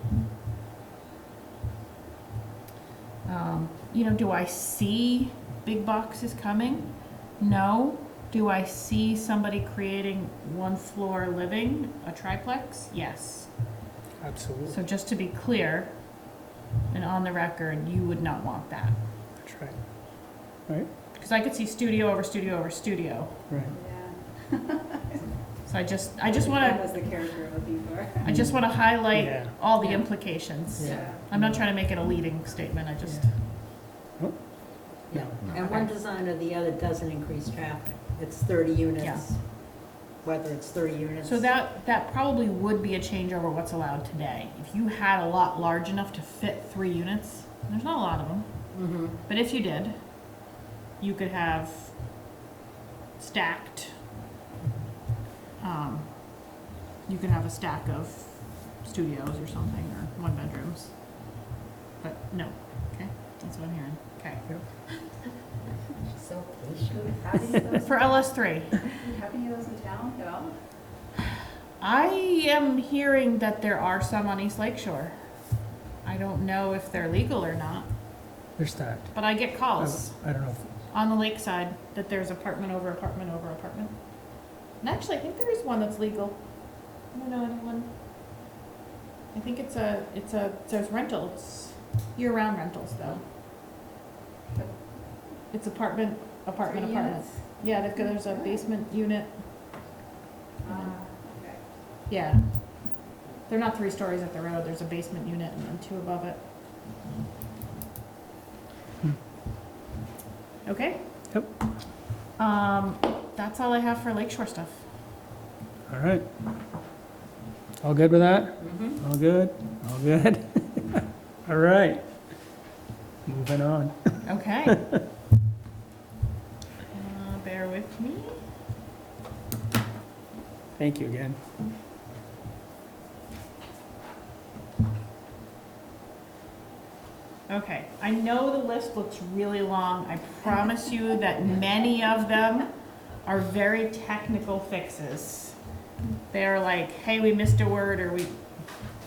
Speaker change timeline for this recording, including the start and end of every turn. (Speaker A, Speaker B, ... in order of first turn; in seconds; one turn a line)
Speaker A: 3.2-13.7
Speaker B: 14.2-14.8
Speaker A: 14.7-19.0
Speaker B: 19.4-20.9
Speaker A: 21.1-23.4
Speaker C: 23.7-25.2
Speaker A: 25.6-27.1
Speaker C: 26.2-28.6
Speaker A: 28.2-33.4
Speaker B: 28.3-29.6
Speaker C: 29.8-30.2
Speaker B: 30.8-31.6
Speaker C: 30.8-31.2
Speaker D: 30.8-31.1
Speaker B: 33.0-33.4
Speaker D: 35.1-41.5
Speaker A: 35.5-35.9
Speaker A: 39.0-39.2
Speaker A: 41.2-52.0
Speaker D: 48.7-49.2
Speaker A: 53.2-54.0
Speaker D: 54.6-54.9
Speaker A: 55.6-65.1
Speaker D: 66.0-67.2
Speaker C: 66.9-70.7
Speaker A: 67.8-68.8
Speaker A: 71.8-75.2
Speaker A: 76.0-77.9
Speaker B: 78.6-80.7
Speaker A: 79.1-88.0
Speaker A: 89.3-93.2
Speaker C: 94.5-95.3
Speaker A: 95.5-99.9
Speaker C: 96.6-98.7
Speaker C: 100.6-101.7
Speaker A: 100.7-101.0
Speaker A: 102.1-106.5
Speaker A: 110.6-111.3
Speaker A: 112.3-114.9
Speaker B: 115.9-116.3
Speaker B: 117.8-122.5
Speaker D: 118.6-119.0
Speaker B: 123.2-124.9
Speaker A: 124.2-124.8
Speaker A: 126.9-128.4
Speaker B: 130.8-131.4
Speaker A: 137.5-145.6
Speaker A: 146.3-148.4